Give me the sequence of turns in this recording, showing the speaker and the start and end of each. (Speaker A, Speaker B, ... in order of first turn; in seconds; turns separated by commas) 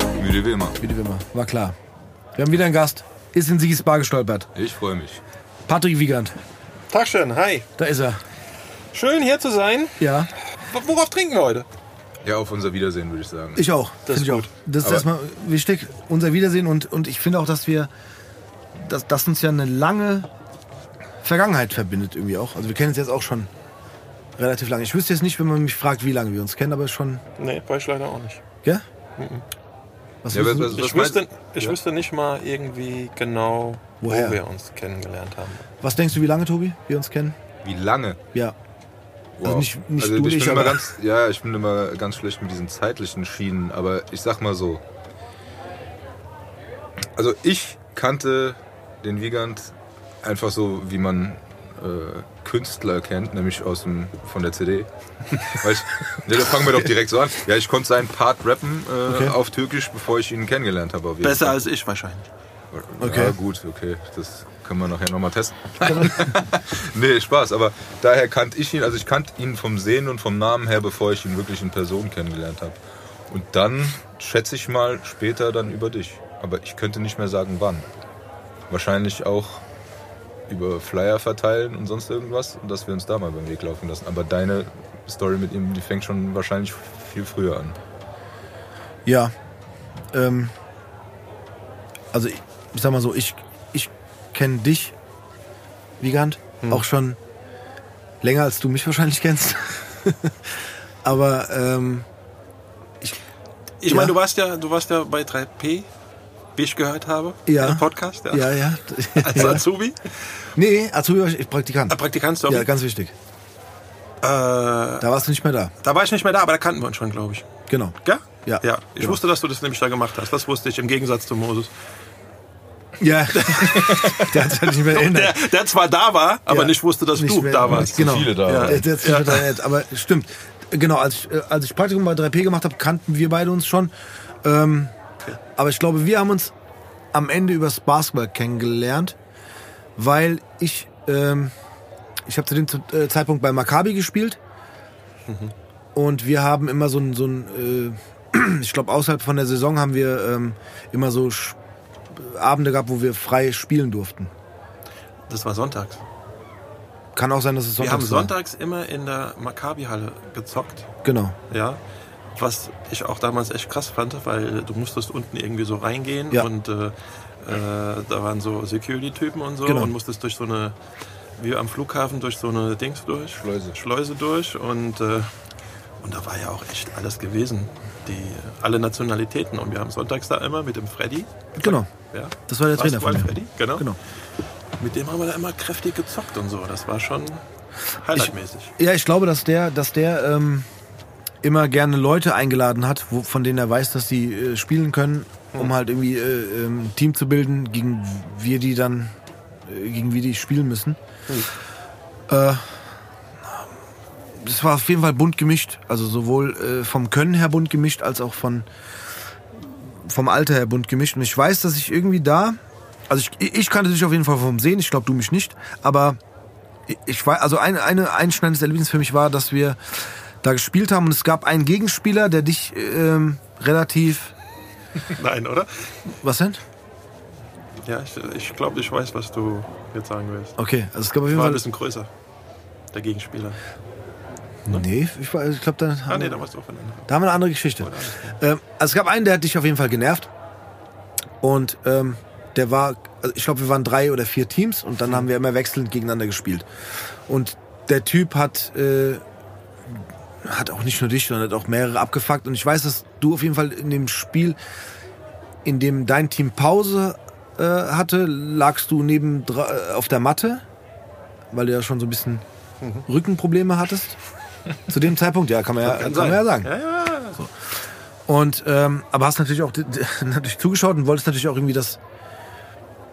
Speaker A: 0.2-0.8, Speaker B: 0.8-1.8, Speaker B: 2.4-4.5, Speaker A: 4.5-5.2, Speaker B: 5.7-6.4, Speaker C: 6.9-7.7, Speaker B: 7.8-8.2, Speaker C: 8.9-11.7, Speaker B: 10.0-10.3, Speaker A: 12.2-13.7, Speaker B: 13.6-17.9, Speaker C: 14.1-14.5, Speaker B: 18.8-20.3, Speaker B: 21.2-23.5, Speaker B: 24.4-27.2, Speaker C: 27.4-28.4, Speaker C: 29.2-29.4, Speaker B: 30.2-30.8, Speaker A: 30.3-31.8, Speaker C: 30.7-35.7, Speaker B: 34.0-34.4, Speaker B: 35.8-37.4, Speaker A: 37.6-38.2, Speaker A: 39.4-44.8, Speaker B: 39.4-40.9, Speaker A: 47.1-61.6, Speaker B: 56.4-56.9, Speaker B: 59.1-59.4, Speaker C: 61.2-62.2, Speaker A: 62.7-72.8, Speaker B: 63.0-63.4, Speaker B: 65.8-66.5, Speaker A: 73.3-77.9, Speaker A: 78.7-79.6, Speaker A: 80.5-87.8, Speaker B: 89.1-89.3, Speaker B: 90.1-90.5, Speaker B: 92.1-95.0, Speaker B: 96.0-97.2, Speaker B: 98.2-102.1, Speaker C: 103.8-105.9, Speaker B: 103.9-104.2, Speaker C: 106.6-108.6, Speaker B: 107.5-109.7, Speaker C: 109.2-110.5, Speaker B: 110.5-113.1, Speaker C: 111.9-112.7, Speaker C: 114.2-115.1, Speaker B: 115.0-115.7, Speaker C: 115.8-117.5, Speaker B: 117.7-119.2, Speaker C: 118.0-121.7, Speaker B: 123.0-125.4, Speaker C: 123.3-129.5, Speaker A: 123.8-124.4, Speaker B: 126.5-135.0, Speaker A: 127.7-128.9, Speaker B: 135.6-136.5, Speaker B: 137.1-139.2, Speaker B: 140.0-141.5, Speaker B: 142.3-144.4, Speaker C: 145.3-145.5, Speaker B: 145.9-151.6, Speaker B: 152.1-154.3, Speaker C: 155.3-156.0, Speaker B: 157.2-158.3, Speaker C: 157.8-160.9, Speaker B: 161.0-161.4, Speaker C: 161.5-161.8, Speaker C: 162.4-170.8, Speaker B: 169.7-169.9, Speaker C: 171.4-175.3, Speaker A: 173.3-173.8, Speaker C: 176.0-183.9, Speaker B: 181.6-181.9, Speaker B: 182.5-184.0, Speaker C: 184.8-188.7, Speaker B: 188.2-190.7, Speaker B: 191.4-201.0, Speaker B: 202.3-203.0, Speaker B: 204.3-208.7, Speaker B: 209.5-216.2, Speaker B: 216.9-224.3, Speaker C: 225.1-226.1, Speaker B: 226.2-226.6, Speaker C: 227.8-230.6, Speaker B: 230.6-231.6, Speaker C: 231.3-232.1, Speaker C: 232.9-233.6, Speaker B: 234.7-236.4, Speaker C: 236.1-237.1, Speaker B: 237.1-240.3, Speaker C: 237.8-238.4, Speaker B: 241.4-249.2, Speaker B: 249.9-254.6, Speaker B: 255.6-260.6, Speaker B: 261.5-262.4, Speaker B: 263.1-264.2, Speaker B: 264.9-266.7, Speaker C: 265.8-267.4, Speaker B: 268.3-272.0